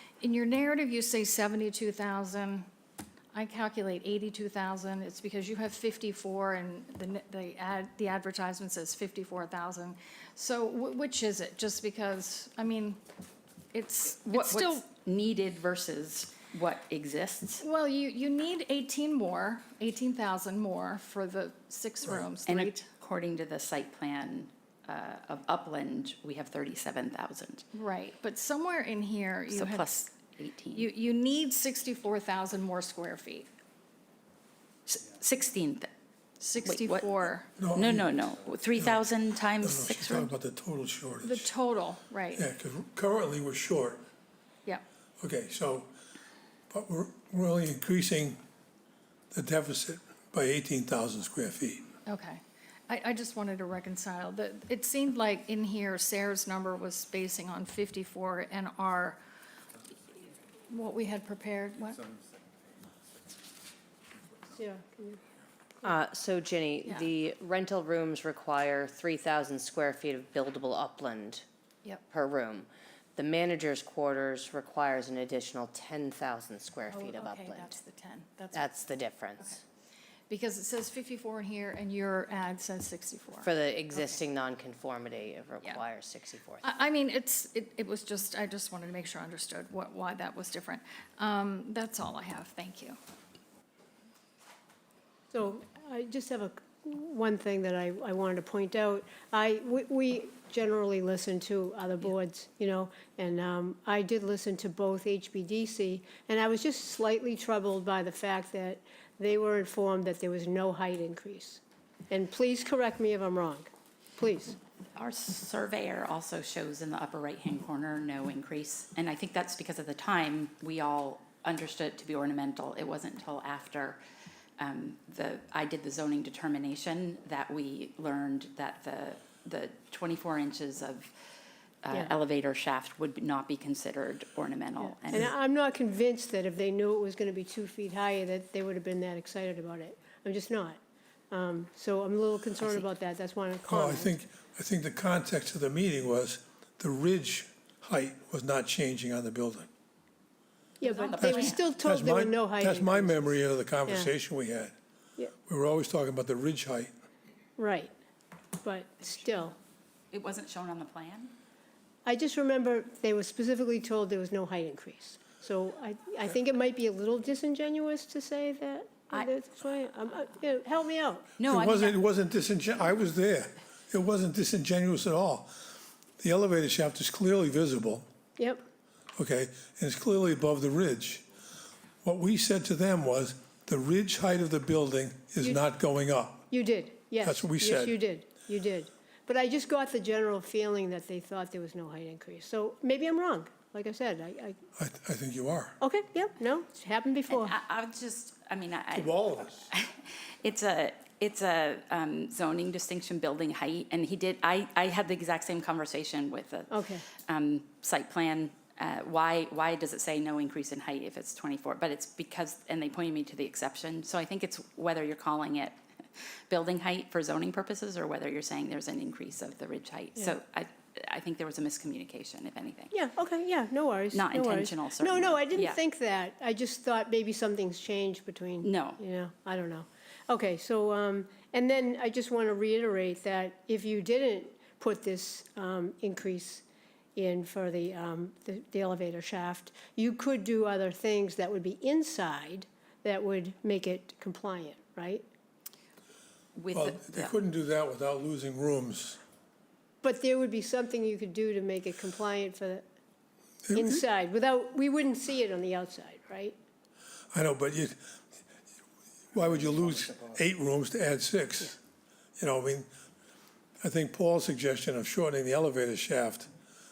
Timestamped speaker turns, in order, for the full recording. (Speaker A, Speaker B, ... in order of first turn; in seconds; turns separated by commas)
Speaker A: 0.2-2.7, Speaker A: 3.3-13.0, Speaker A: 13.7-14.8, Speaker B: 14.3-17.6, Speaker A: 17.6-22.9, Speaker B: 22.5-27.6, Speaker A: 27.7-30.0, Speaker B: 29.5-30.9, Speaker A: 30.7-33.5, Speaker B: 34.9-35.9, Speaker A: 36.4-37.5, Speaker B: 36.6-40.3, Speaker C: 37.6-38.2, Speaker C: 38.8-39.0, Speaker C: 39.6-41.5, Speaker A: 41.2-42.5, Speaker C: 42.4-44.0, Speaker C: 45.2-45.9, Speaker C: 46.7-48.4, Speaker C: 49.3-51.9, Speaker A: 52.1-59.2, Speaker A: 60.7-62.1, Speaker D: 64.5-65.2, Speaker E: 65.8-71.5, Speaker A: 66.8-67.1, Speaker E: 72.1-77.8, Speaker A: 76.9-78.7, Speaker E: 78.5-79.6, Speaker A: 80.3-84.2, Speaker E: 83.4-86.7, Speaker A: 86.6-93.0, Speaker D: 95.3-114.6, Speaker B: 115.0-124.0, Speaker B: 124.6-131.1, Speaker B: 131.8-135.3, Speaker D: 134.8-140.8, Speaker D: 141.3-144.2, Speaker C: 143.7-149.7, Speaker D: 150.8-153.4, Speaker B: 150.8-151.8, Speaker C: 151.2-154.7, Speaker D: 153.9-154.1, Speaker C: 155.5-156.9, Speaker D: 157.6-157.9, Speaker D: 158.6-159.6, Speaker B: 160.1-161.3, Speaker D: 162.1-171.3, Speaker B: 171.4-172.0, Speaker C: 171.5-175.5, Speaker C: 176.2-178.1, Speaker C: 179.2-181.2, Speaker C: 182.0-186.5, Speaker D: 186.5-194.6, Speaker C: 187.2-188.0, Speaker C: 194.8-195.8, Speaker D: 195.8-197.6, Speaker B: 197.3-222.9, Speaker C: 198.9-199.7, Speaker D: 206.7-207.1, Speaker D: 222.9-236.6, Speaker B: 224.1-225.8, Speaker B: 228.6-229.0, Speaker D: 237.2-245.2, Speaker B: 246.6-247.3, Speaker C: 246.7-249.2, Speaker D: 250.0-252.8, Speaker C: 253.7-254.0, Speaker D: 253.7-256.6, Speaker C: 257.3-258.0, Speaker C: 259.3-261.8, Speaker C: 262.4-262.9, Speaker C: 263.8-266.5